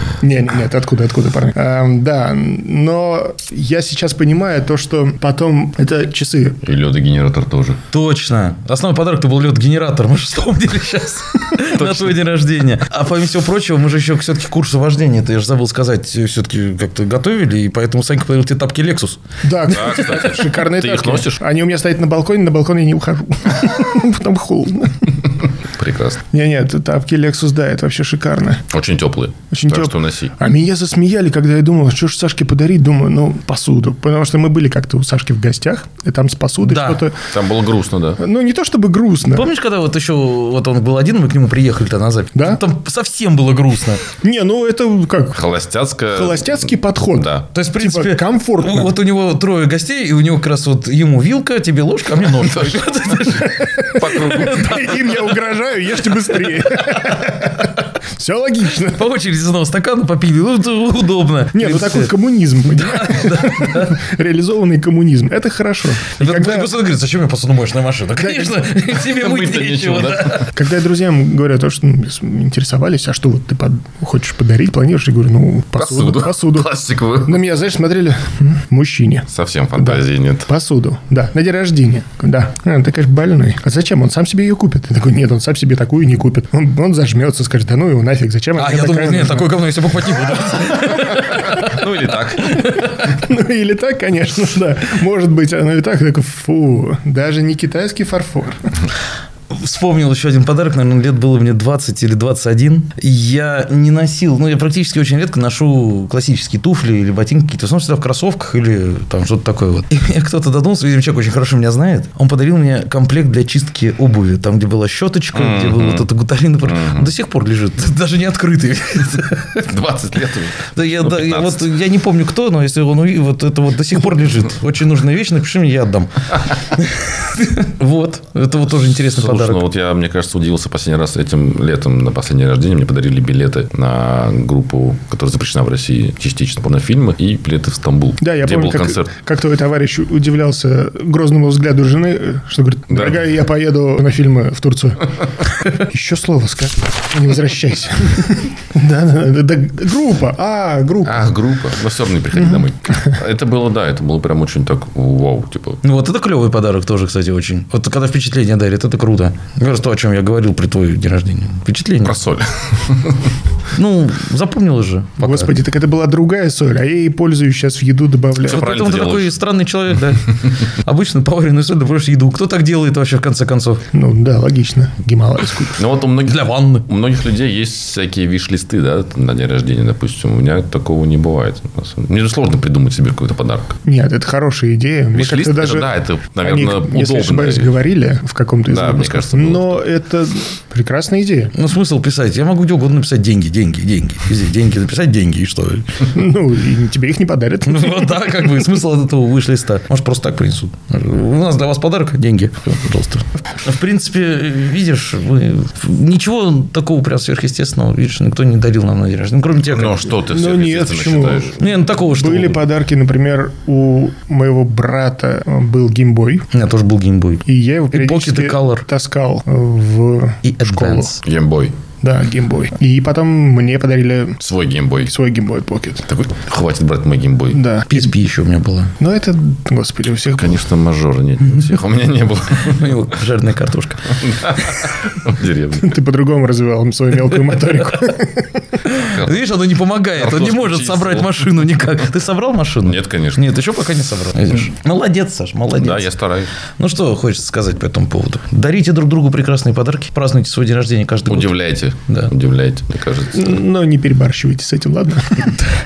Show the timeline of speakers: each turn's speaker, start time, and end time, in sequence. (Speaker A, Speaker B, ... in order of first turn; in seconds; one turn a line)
Speaker A: 0.2-6.6
Speaker B: 6.6-7.8
Speaker C: 7.9-19.2
Speaker B: 11.8-12.2
Speaker A: 19.4-25.1
Speaker B: 19.7-21.4
Speaker B: 25.8-26.2
Speaker A: 26.3-28.6
Speaker B: 28.7-30.3
Speaker A: 29.5-37.3
Speaker C: 36.6-37.0
Speaker B: 37.3-38.2
Speaker A: 38.2-39.5
Speaker C: 39.3-44.0
Speaker A: 42.3-42.6
Speaker A: 44.2-45.4
Speaker B: 45.3-47.5
Speaker A: 46.1-49.0
Speaker C: 47.5-54.5
Speaker B: 52.3-55.2
Speaker A: 53.6-59.0
Speaker C: 58.9-64.0
Speaker A: 61.5-66.7
Speaker C: 66.2-70.5
Speaker A: 68.2-68.6
Speaker B: 68.9-70.4
Speaker A: 70.5-76.7
Speaker B: 75.8-77.4
Speaker A: 77.2-89.6
Speaker B: 79.3-80.5
Speaker C: 88.6-91.8
Speaker B: 90.9-92.7
Speaker C: 92.5-92.8
Speaker A: 92.6-98.6
Speaker C: 99.5-119.7
Speaker B: 115.3-116.1
Speaker B: 116.6-117.1
Speaker B: 119.6-121.7
Speaker C: 120.7-129.6
Speaker B: 128.9-139.1
Speaker A: 138.2-151.2
Speaker B: 142.9-143.2
Speaker B: 151.1-155.8
Speaker A: 152.4-152.6
Speaker C: 155.8-162.2
Speaker B: 162.0-163.3
Speaker C: 163.7-165.5
Speaker A: 165.2-168.7
Speaker B: 168.4-169.3
Speaker C: 168.4-173.8
Speaker A: 173.9-175.8
Speaker B: 175.8-183.7
Speaker C: 176.2-176.8
Speaker A: 183.8-191.5
Speaker B: 185.1-187.8
Speaker B: 188.7-189.8
Speaker C: 191.5-195.8
Speaker A: 196.1-198.3
Speaker C: 197.7-210.1
Speaker B: 209.7-211.6
Speaker A: 210.1-216.5
Speaker C: 211.6-212.6
Speaker C: 216.5-218.8
Speaker A: 217.4-221.2
Speaker C: 220.4-221.2
Speaker B: 221.2-221.7
Speaker A: 222.0-224.4
Speaker B: 224.4-225.1
Speaker A: 225.1-226.0
Speaker B: 226.1-227.6
Speaker A: 227.5-228.1
Speaker C: 227.9-228.9
Speaker A: 229.0-230.7
Speaker B: 230.2-233.0
Speaker C: 232.6-234.1
Speaker B: 234.2-235.9
Speaker A: 235.8-238.6
Speaker C: 238.8-246.1
Speaker B: 239.0-239.4
Speaker B: 240.1-241.6
Speaker B: 242.8-243.4
Speaker B: 245.7-246.5
Speaker C: 246.8-251.5
Speaker B: 251.3-253.6
Speaker C: 252.1-252.3
Speaker A: 253.3-255.7